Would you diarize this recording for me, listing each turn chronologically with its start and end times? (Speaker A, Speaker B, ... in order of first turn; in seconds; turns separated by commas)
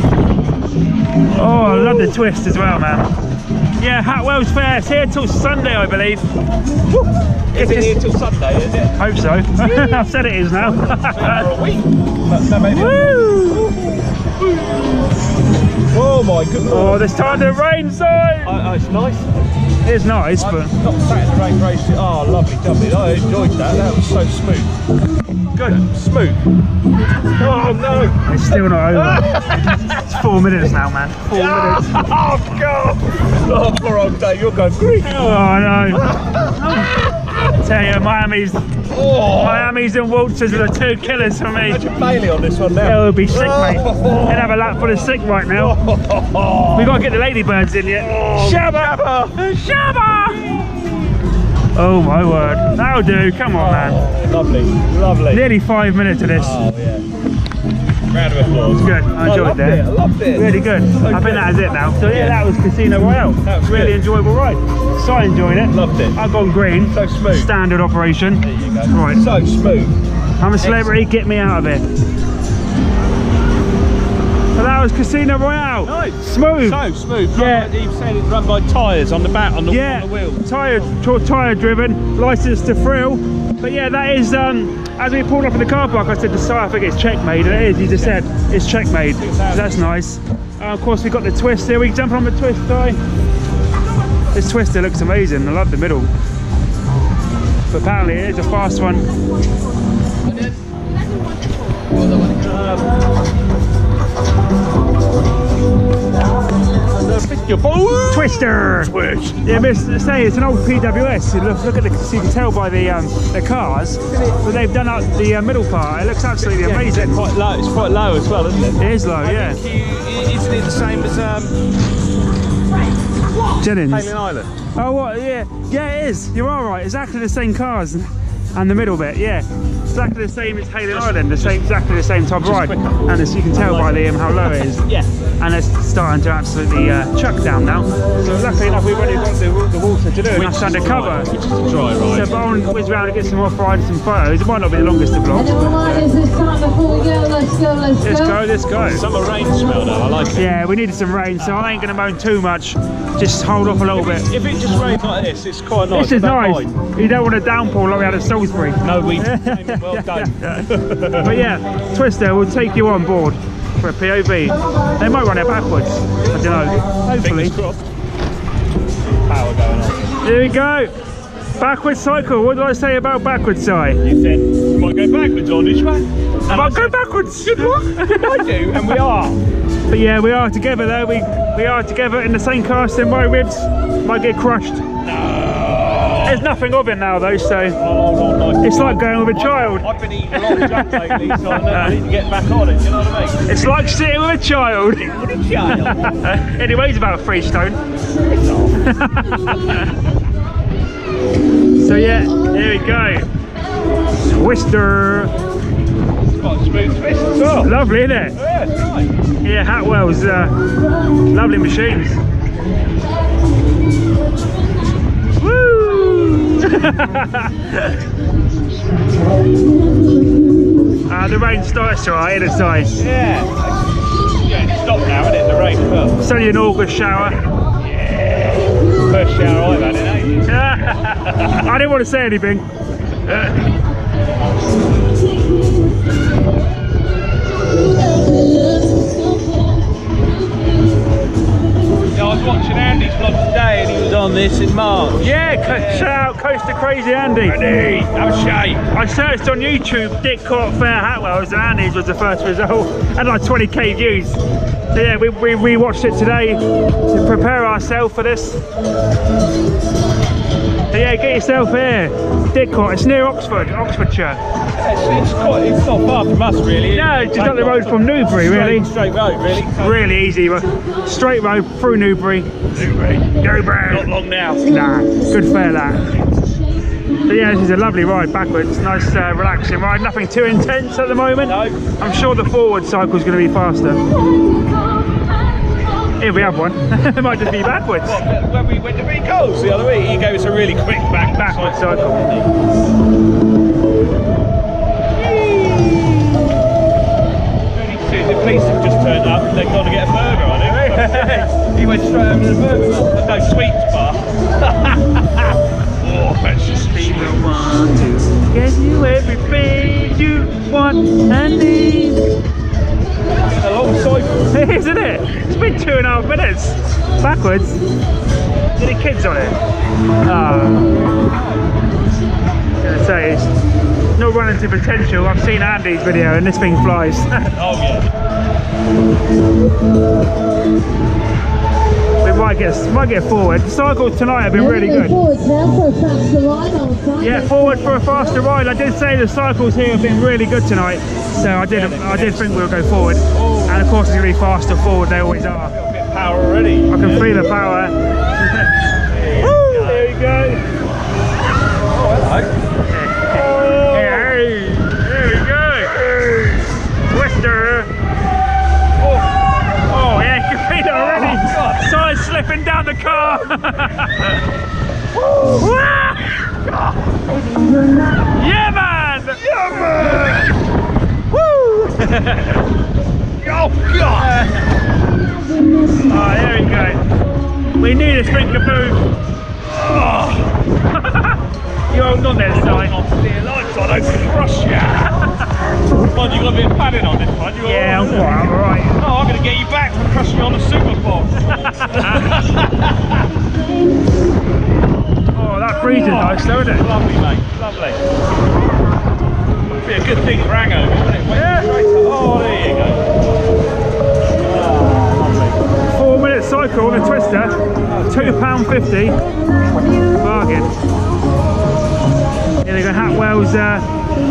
Speaker A: 1.3-3.1, Speaker B: 1.4-2.2, Speaker A: 3.8-6.2, Speaker B: 6.9-8.9, Speaker A: 7.5-8.0, Speaker A: 9.0-11.5, Speaker B: 9.6-13.9, Speaker A: 12.7-13.7, Speaker B: 14.4-14.9, Speaker B: 15.9-17.5, Speaker A: 16.7-18.6, Speaker B: 18.4-19.5, Speaker A: 19.9-20.7, Speaker B: 20.4-24.7, Speaker B: 25.5-26.4, Speaker B: 27.4-30.1, Speaker A: 28.3-29.4, Speaker A: 29.9-32.0, Speaker B: 31.3-35.4, Speaker A: 35.0-41.8, Speaker B: 35.9-37.5, Speaker B: 38.9-39.8, Speaker B: 40.5-44.9, Speaker A: 42.8-45.8, Speaker B: 45.5-47.0, Speaker A: 46.7-50.6, Speaker B: 48.0-49.4, Speaker B: 50.3-51.1, Speaker A: 51.8-54.0, Speaker B: 52.3-52.8, Speaker B: 53.5-55.5, Speaker A: 55.3-56.6, Speaker B: 56.4-57.0, Speaker B: 58.1-62.4, Speaker A: 58.8-69.2, Speaker B: 63.4-64.0, Speaker B: 65.7-66.2, Speaker B: 66.9-67.5, Speaker B: 68.4-70.0, Speaker A: 70.4-71.8, Speaker B: 70.6-71.0, Speaker A: 74.5-76.8, Speaker B: 75.8-80.5, Speaker A: 77.3-77.7, Speaker A: 79.7-93.0, Speaker B: 87.6-88.3, Speaker B: 89.2-89.8, Speaker A: 94.3-96.1, Speaker A: 97.7-99.1, Speaker B: 102.1-102.9, Speaker B: 106.9-109.7, Speaker A: 108.1-117.2, Speaker B: 114.1-114.4, Speaker B: 116.4-121.5, Speaker A: 118.8-119.6, Speaker A: 123.6-124.1, Speaker B: 123.8-124.5, Speaker A: 124.8-134.9, Speaker B: 130.9-131.7, Speaker B: 132.4-135.1, Speaker A: 135.4-141.3, Speaker B: 140.3-142.4, Speaker A: 142.1-146.0, Speaker C: 145.3-148.4, Speaker A: 148.0-149.0, Speaker B: 148.9-150.5, Speaker A: 150.4-154.3, Speaker B: 153.9-156.7, Speaker A: 155.9-167.6, Speaker B: 158.8-161.4, Speaker B: 167.1-167.8, Speaker B: 169.2-170.2, Speaker A: 170.2-170.9, Speaker A: 171.6-174.0, Speaker B: 174.0-179.4, Speaker A: 176.5-178.9, Speaker A: 179.9-184.8, Speaker B: 185.0-186.5, Speaker A: 186.2-187.8, Speaker B: 187.8-193.4, Speaker A: 188.6-192.0, Speaker A: 193.5-197.8, Speaker B: 195.2-196.2, Speaker B: 198.3-198.8, Speaker A: 198.8-199.7, Speaker A: 201.8-203.3, Speaker A: 204.2-205.3, Speaker B: 206.4-207.7, Speaker A: 207.6-208.4, Speaker B: 208.4-209.1, Speaker A: 209.4-210.5, Speaker A: 211.3-212.2, Speaker A: 215.4-217.9, Speaker A: 221.1-222.9, Speaker B: 223.0-226.2, Speaker A: 226.2-227.4, Speaker B: 227.8-231.6, Speaker A: 230.5-232.7, Speaker B: 242.1-246.1, Speaker A: 245.2-247.6, Speaker B: 247.5-248.9, Speaker A: 248.9-254.4, Speaker A: 254.9-258.6, Speaker A: 260.9-264.4, Speaker B: 264.8-270.1, Speaker A: 266.9-268.9, Speaker A: 269.5-272.5, Speaker B: 272.7-274.6, Speaker A: 273.4-274.1, Speaker A: 274.6-276.1, Speaker A: 277.3-284.0, Speaker B: 281.5-281.8, Speaker A: 286.2-288.2, Speaker B: 288.0-292.5, Speaker A: 291.3-292.3, Speaker B: 295.2-296.4, Speaker B: 297.7-307.6, Speaker A: 300.7-301.5, Speaker A: 306.9-312.3, Speaker B: 313.4-314.5, Speaker A: 314.5-317.8, Speaker A: 318.8-319.6, Speaker A: 320.2-321.0, Speaker B: 321.0-321.6, Speaker A: 322.8-323.5, Speaker A: 324.2-327.5, Speaker B: 327.6-328.1, Speaker A: 332.2-335.2, Speaker C: 334.5-338.2, Speaker A: 337.2-345.8, Speaker B: 341.7-342.7, Speaker B: 343.3-343.8, Speaker B: 345.7-347.4, Speaker A: 346.9-348.7, Speaker B: 349.1-350.1, Speaker A: 349.4-350.6, Speaker B: 351.9-352.5, Speaker A: 352.9-356.0, Speaker B: 353.3-354.4, Speaker B: 355.9-356.7, Speaker A: 357.0-357.9, Speaker B: 359.0-359.8, Speaker A: 359.9-364.4, Speaker B: 360.9-361.9, Speaker B: 365.1-365.6, Speaker A: 365.5-366.4, Speaker B: 366.6-367.0, Speaker A: 368.3-369.4, Speaker B: 369.4-370.6, Speaker A: 371.3-372.6, Speaker B: 373.4-374.5, Speaker A: 376.0-377.0, Speaker A: 377.8-379.0, Speaker B: 379.7-380.5, Speaker A: 381.0-381.4, Speaker A: 381.9-382.9, Speaker B: 382.2-385.3, Speaker B: 386.0-393.2, Speaker A: 387.6-388.9, Speaker A: 391.5-392.3, Speaker A: 395.4-396.9, Speaker B: 395.9-398.0, Speaker B: 399.8-403.1, Speaker A: 401.3-401.7, Speaker B: 404.4-405.6, Speaker A: 405.9-409.2, Speaker B: 407.9-408.4, Speaker A: 410.2-410.7, Speaker A: 412.6-413.9